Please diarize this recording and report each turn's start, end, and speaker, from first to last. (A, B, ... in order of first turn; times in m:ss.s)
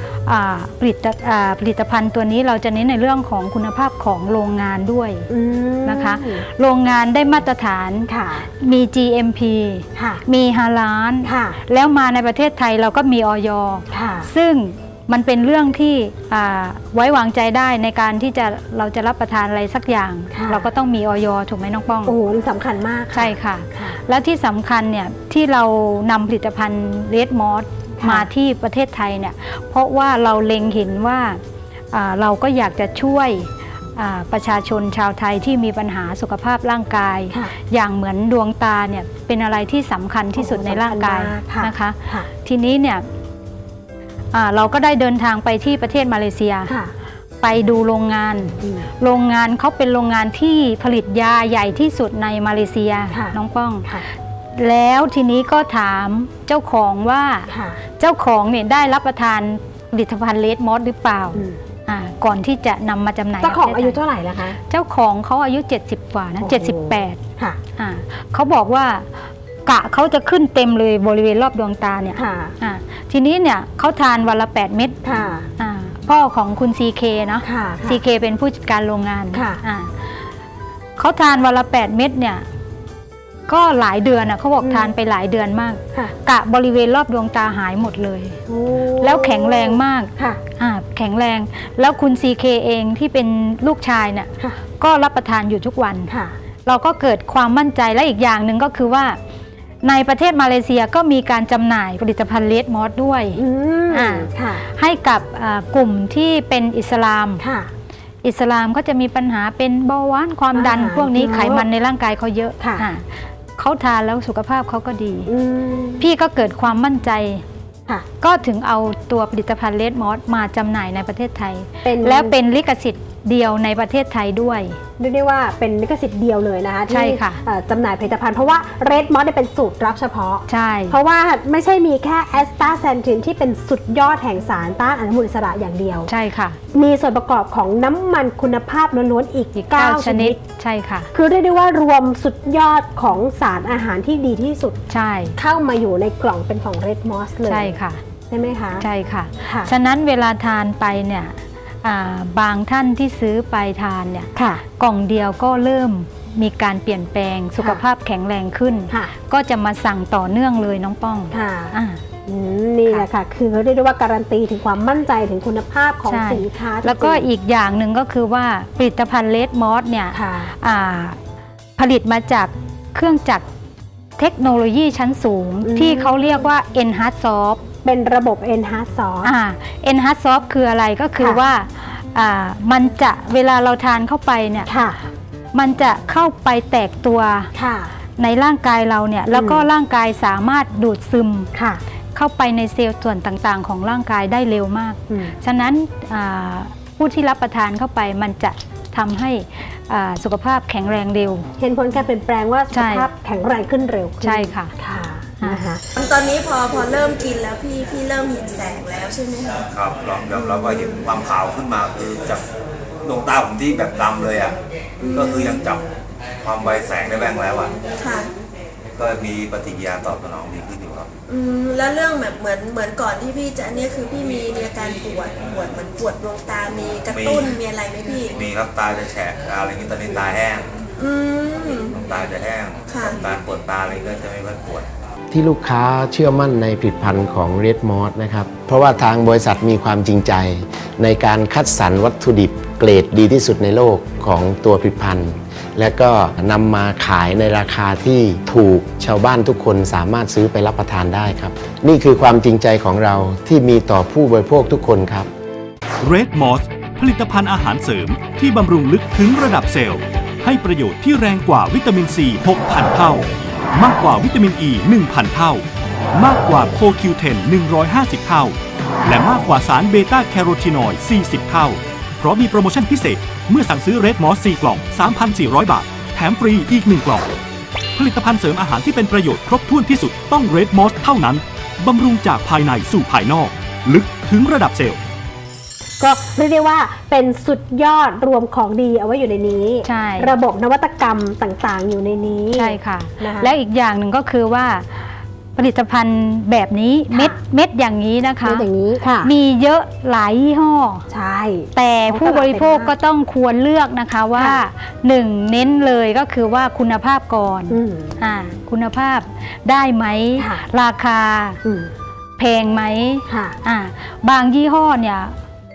0:00.3-0:05.3 A
0:05.3-0:06.4 B
0:05.8-0:22.2 A
0:08.1-0:08.5 B
0:10.0-0:10.2 B
0:11.2-0:11.6 B
0:13.9-0:14.3 B
0:20.3-0:20.6 B
0:22.0-0:24.0 B
0:23.1-0:31.4 A
0:28.0-0:28.3 B
0:31.9-0:43.0 A
0:40.4-0:42.3 B
0:44.3-0:46.7 A
0:47.4-0:54.0 A
0:48.6-0:48.9 B
0:53.1-0:53.4 B
0:54.6-1:04.0 A
0:57.5-0:57.8 B
1:01.4-1:01.6 B
1:03.4-1:04.6 B
1:04.7-1:07.2 A
1:06.4-1:07.6 B
1:07.8-1:09.1 A
1:09.7-1:15.0 A
1:12.2-1:12.5 B
1:15.0-1:15.5 B
1:15.6-1:19.9 A
1:17.4-1:18.0 B
1:19.3-1:19.6 B
1:21.0-1:22.4 A
1:23.5-1:28.4 A
1:24.6-1:24.9 B
1:28.5-1:30.4 B
1:29.0-1:36.1 A
1:36.1-1:36.4 B
1:36.7-1:39.2 A
1:39.8-1:47.4 A
1:43.4-1:44.6 B
1:47.4-1:47.7 B
1:48.2-1:55.3 A
1:50.5-1:51.7 B
1:52.6-1:52.8 B
1:55.3-1:56.0 B
1:56.0-1:57.4 A
1:58.2-2:04.8 A
2:01.8-2:02.4 B
2:05.0-2:16.1 B
2:06.9-2:07.4 A
2:10.5-2:11.0 A
2:16.1-2:16.6 A
2:16.7-2:20.4 B
2:19.8-2:21.1 A
2:21.1-2:24.8 B
2:24.9-2:25.4 A
2:25.4-2:27.7 B
2:27.5-2:28.0 A
2:28.3-2:28.8 B
2:28.8-2:42.0 A
2:34.4-2:34.6 B
2:41.3-2:41.8 B
2:42.3-2:47.3 B
2:46.1-2:51.2 A
2:50.1-2:50.5 B
2:51.8-2:53.4 A
2:54.2-2:57.6 A
2:55.6-2:56.5 B
2:57.8-2:59.3 B
2:59.2-3:04.7 A
3:04.7-3:05.1 B
3:05.5-3:07.5 A
3:07.6-3:08.0 B
3:08.2-3:11.5 A
3:09.3-3:09.7 B
3:11.6-3:11.8 B
3:12.2-3:21.5 A
3:15.1-3:15.4 B
3:21.6-3:25.8 B
3:22.7-3:23.1 A
3:24.2-3:24.7 A
3:26.0-3:29.7 C
3:29.6-3:32.5 D
3:30.3-3:31.2 C
3:33.0-3:34.6 D
3:35.0-3:35.7 C
3:35.1-3:35.9 D
3:36.4-3:37.8 D
3:37.6-3:38.3 C
3:39.0-3:41.1 D
3:41.3-3:48.4 C
3:47.1-3:47.6 D
3:48.3-3:50.7 D
3:51.0-3:52.0 C
3:52.0-3:54.9 D
3:52.9-3:53.3 C
3:55.3-4:15.3 E
4:16.0-4:25.6 F
4:26.2-4:37.3 F
4:38.0-4:45.0 F
4:46.0-4:53.5 B
4:49.8-4:50.3 A
4:52.6-4:58.7 A
4:57.1-4:57.4 B
4:58.4-4:59.3 B
4:59.2-5:01.1 A
5:01.1-5:02.9 B
5:01.7-5:11.6 A
5:07.7-5:08.2 B
5:10.4-5:10.6 B
5:11.6-5:11.9 B
5:12.4-5:15.3 A
5:13.3-5:13.6 B